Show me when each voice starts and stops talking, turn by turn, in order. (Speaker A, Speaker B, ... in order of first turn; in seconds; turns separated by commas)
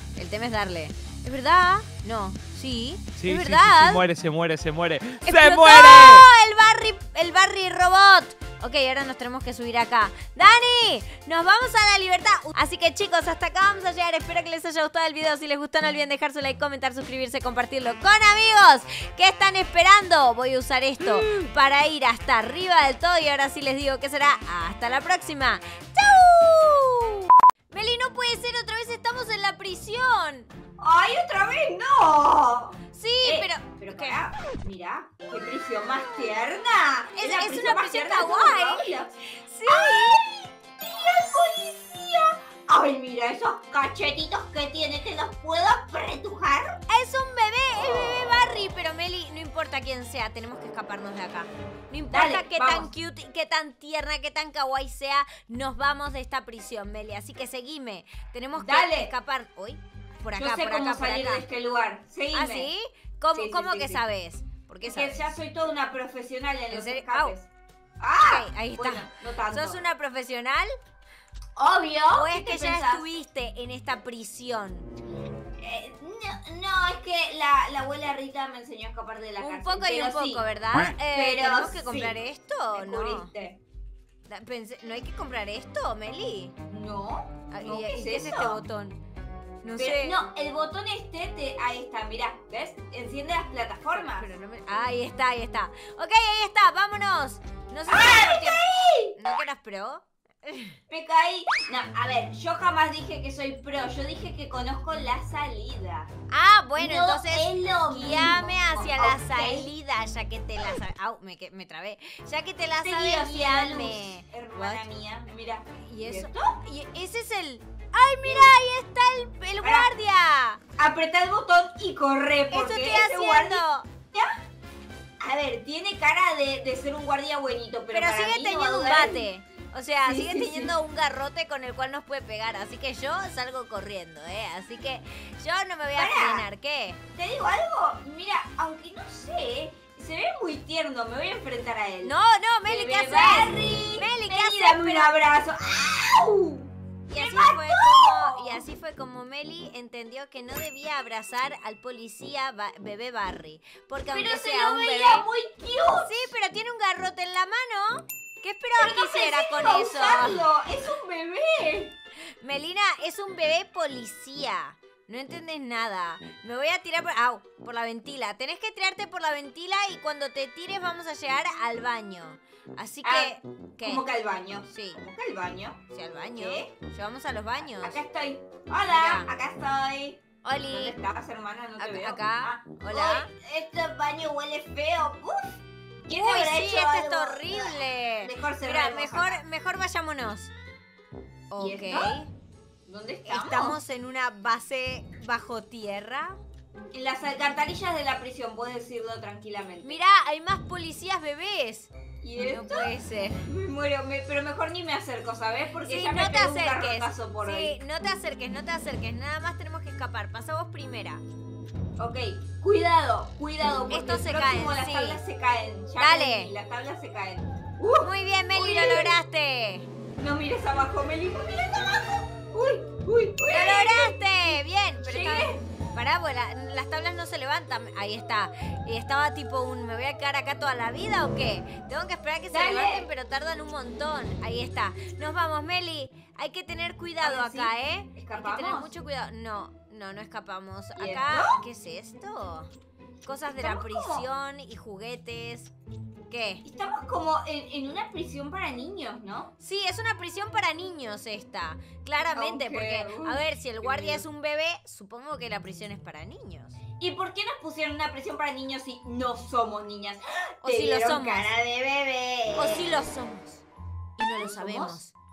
Speaker A: 0.1-4.0, Speaker B: 3.1-6.3, Speaker A: 5.2-30.5, Speaker B: 21.0-21.4, Speaker C: 30.8-39.1, Speaker A: 32.9-34.2, Speaker A: 37.1-40.2, Speaker C: 39.7-46.8, Speaker A: 46.9-61.4, Speaker C: 47.7-48.5, Speaker C: 52.1-52.9, Speaker C: 58.6-59.1, Speaker C: 60.3-62.7, Speaker A: 62.3-65.3, Speaker C: 63.3-64.0, Speaker C: 64.8-67.5, Speaker A: 66.7-67.3, Speaker C: 68.0-69.8, Speaker A: 68.2-70.7, Speaker C: 71.6-73.0, Speaker A: 72.1-74.9, Speaker C: 75.6-82.2, Speaker A: 79.4-83.3, Speaker C: 82.7-83.6, Speaker A: 84.3-86.5, Speaker C: 86.7-88.6, Speaker A: 87.5-89.0, Speaker A: 89.6-90.2, Speaker C: 89.8-94.3, Speaker A: 93.9-98.6, Speaker C: 97.9-99.2, Speaker A: 99.1-100.8, Speaker C: 100.9-106.1, Speaker A: 106.3-114.8, Speaker C: 106.8-109.7, Speaker C: 112.8-116.6, Speaker A: 115.8-120.6, Speaker C: 118.2-118.5, Speaker C: 119.6-119.9, Speaker C: 120.8-124.4, Speaker A: 122.5-123.9, Speaker C: 125.2-129.3, Speaker A: 127.9-137.0, Speaker C: 130.1-130.7, Speaker C: 135.9-136.4, Speaker C: 137.1-142.1, Speaker A: 142.0-145.1, Speaker C: 142.7-148.6, Speaker A: 147.1-155.3, Speaker C: 154.1-156.3, Speaker A: 156.0-160.4, Speaker C: 158.8-161.9, Speaker A: 162.4-174.0, Speaker C: 173.0-175.8, Speaker A: 174.7-175.0, Speaker A: 175.9-178.0, Speaker C: 176.3-176.7, Speaker C: 177.8-189.4, Speaker A: 178.9-179.3, Speaker A: 180.4-180.9, Speaker A: 181.8-183.3, Speaker A: 186.1-190.5, Speaker A: 191.5-192.3, Speaker C: 191.6-192.2, Speaker C: 192.8-193.8, Speaker A: 193.3-196.4, Speaker C: 196.9-200.0, Speaker A: 199.8-203.4, Speaker C: 202.2-202.9, Speaker C: 203.4-207.8, Speaker A: 205.9-211.2, Speaker C: 212.0-219.2, Speaker A: 213.9-215.2, Speaker A: 216.0-216.5, Speaker A: 218.0-219.9, Speaker C: 220.2-225.6, Speaker A: 223.5-242.7, Speaker C: 232.5-233.1, Speaker C: 237.2-238.9, Speaker C: 241.0-241.6, Speaker A: 243.2-245.7, Speaker C: 243.5-244.2, Speaker A: 246.3-246.6, Speaker C: 246.6-249.5, Speaker A: 249.6-256.8, Speaker C: 252.3-254.2, Speaker C: 257.0-262.9, Speaker A: 260.6-261.5, Speaker A: 262.6-263.6, Speaker A: 264.2-265.1, Speaker C: 264.4-265.0